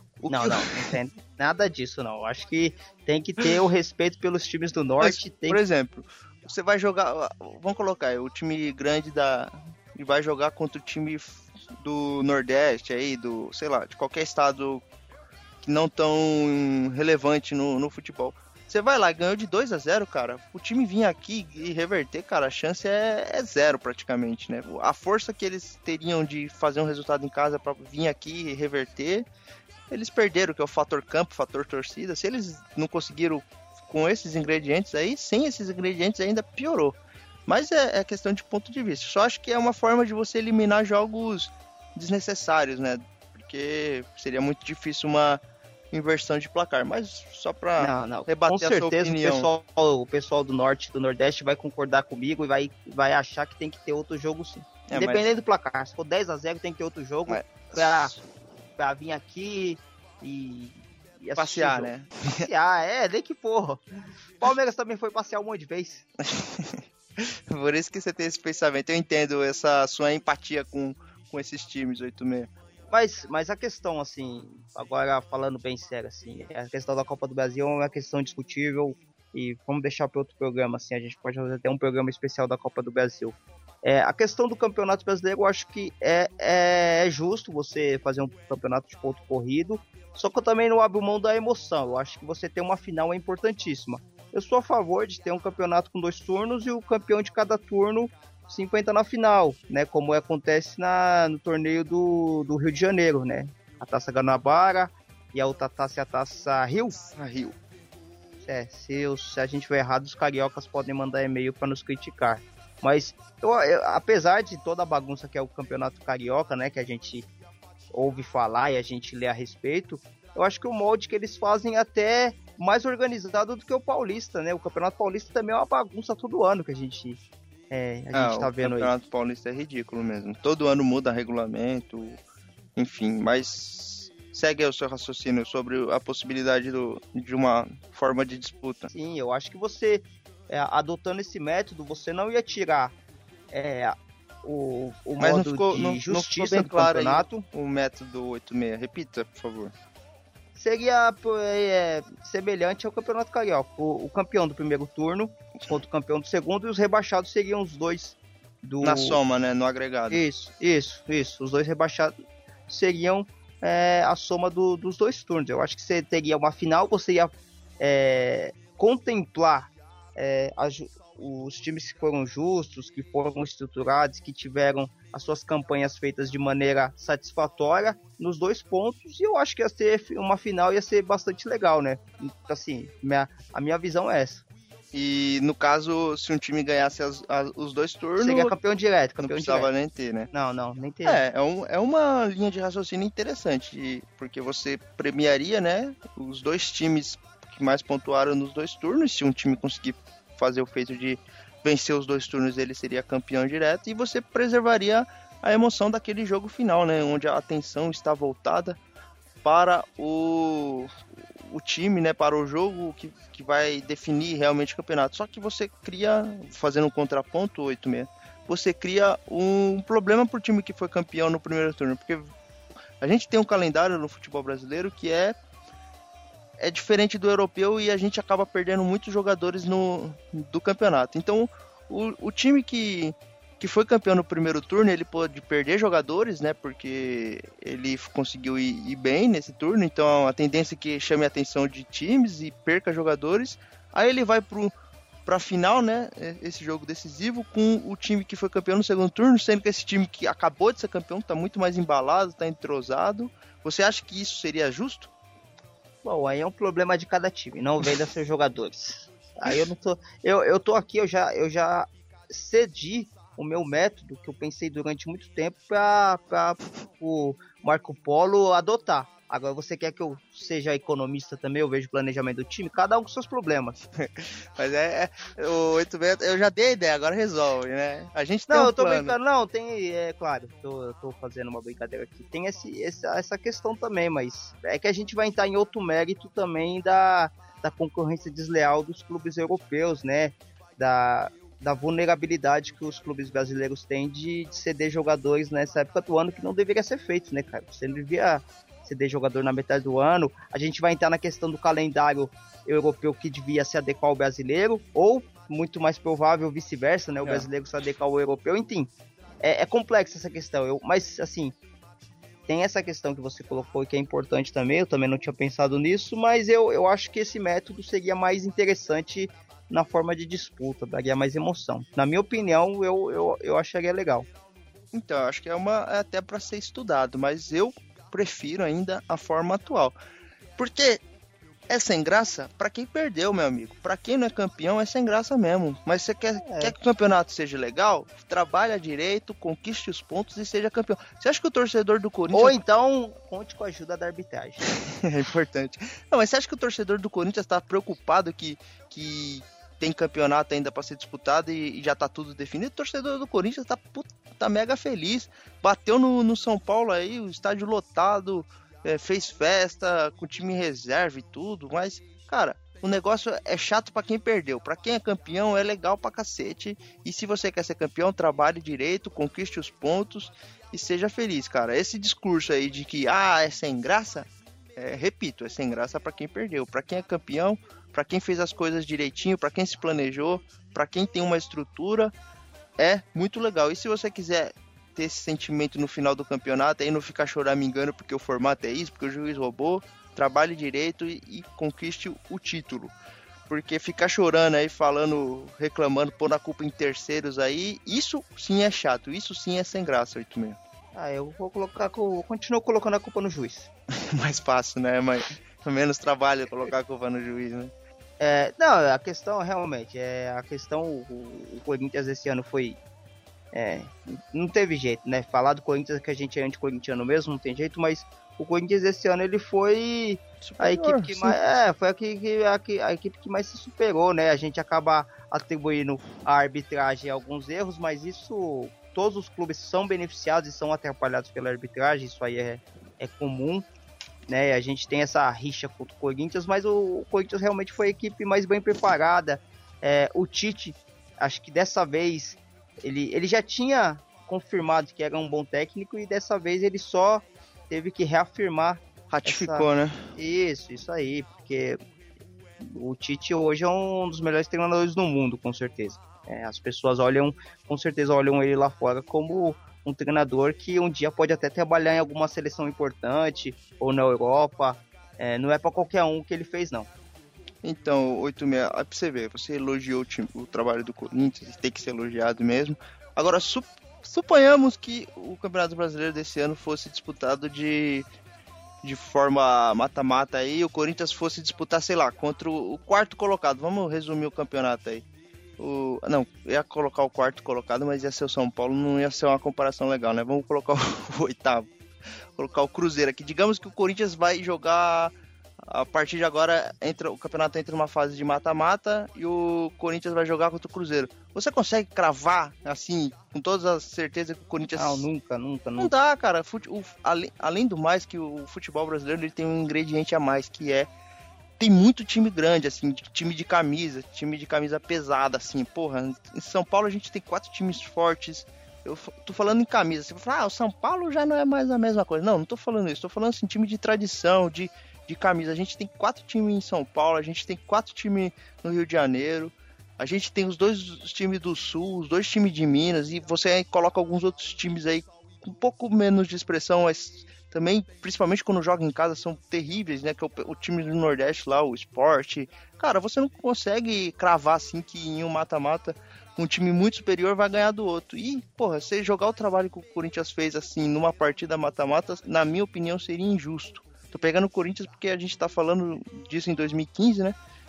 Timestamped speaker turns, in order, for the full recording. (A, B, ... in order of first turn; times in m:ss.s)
0:00.2-0:00.9 A
0:00.3-0:05.6 B
0:05.0-0:14.8 A
0:15.6-0:29.3 A
0:29.9-0:49.5 A
0:47.8-0:58.1 B
0:54.9-0:55.3 A
0:57.3-0:58.2 A
0:58.8-1:03.8 B
1:01.4-1:02.5 A
1:04.4-1:06.0 B
1:06.2-1:12.5 A
1:12.9-1:47.0 B
1:47.0-1:47.6 A
1:48.4-1:57.3 B
1:57.9-2:08.9 B
2:08.1-2:12.2 A
2:12.8-2:18.9 A
2:18.9-2:22.9 B
2:23.5-2:27.4 B
2:25.2-2:29.7 A
2:30.5-2:39.2 B
2:38.8-2:40.2 A
2:40.1-2:42.1 B
2:42.7-3:04.4 B
3:04.9-3:08.5 A
3:08.2-3:09.7 B
3:09.2-3:10.3 A
3:10.3-3:11.2 B
3:11.0-3:28.8 A
3:29.4-3:42.3 A
3:43.0-3:45.4 A
3:46.6-4:04.7 A
4:05.2-4:15.1 A
4:16.0-4:33.8 B
4:34.0-4:39.2 A
4:38.5-5:11.6 B
5:07.2-5:07.5 A
5:12.5-5:24.3 B
5:24.9-5:30.0 A
5:30.6-5:31.0 A
5:31.7-5:42.6 A
5:36.4-5:36.7 B
5:42.3-5:44.7 B
5:45.0-6:22.1 A
6:22.8-6:32.9 A
6:33.5-6:40.6 A
6:40.9-6:43.7 B
6:44.0-6:47.7 A
6:48.2-6:52.8 B
6:53.5-7:13.7 B
7:00.4-7:01.4 A
7:14.3-7:31.8 B
7:29.1-7:30.0 A
7:32.6-7:46.9 B
7:47.6-7:58.0 A
7:58.8-8:05.0 A
8:05.6-8:11.7 A
8:12.3-8:25.0 A
8:24.7-8:25.9 B
8:25.8-8:30.9 A
8:31.6-9:17.4 A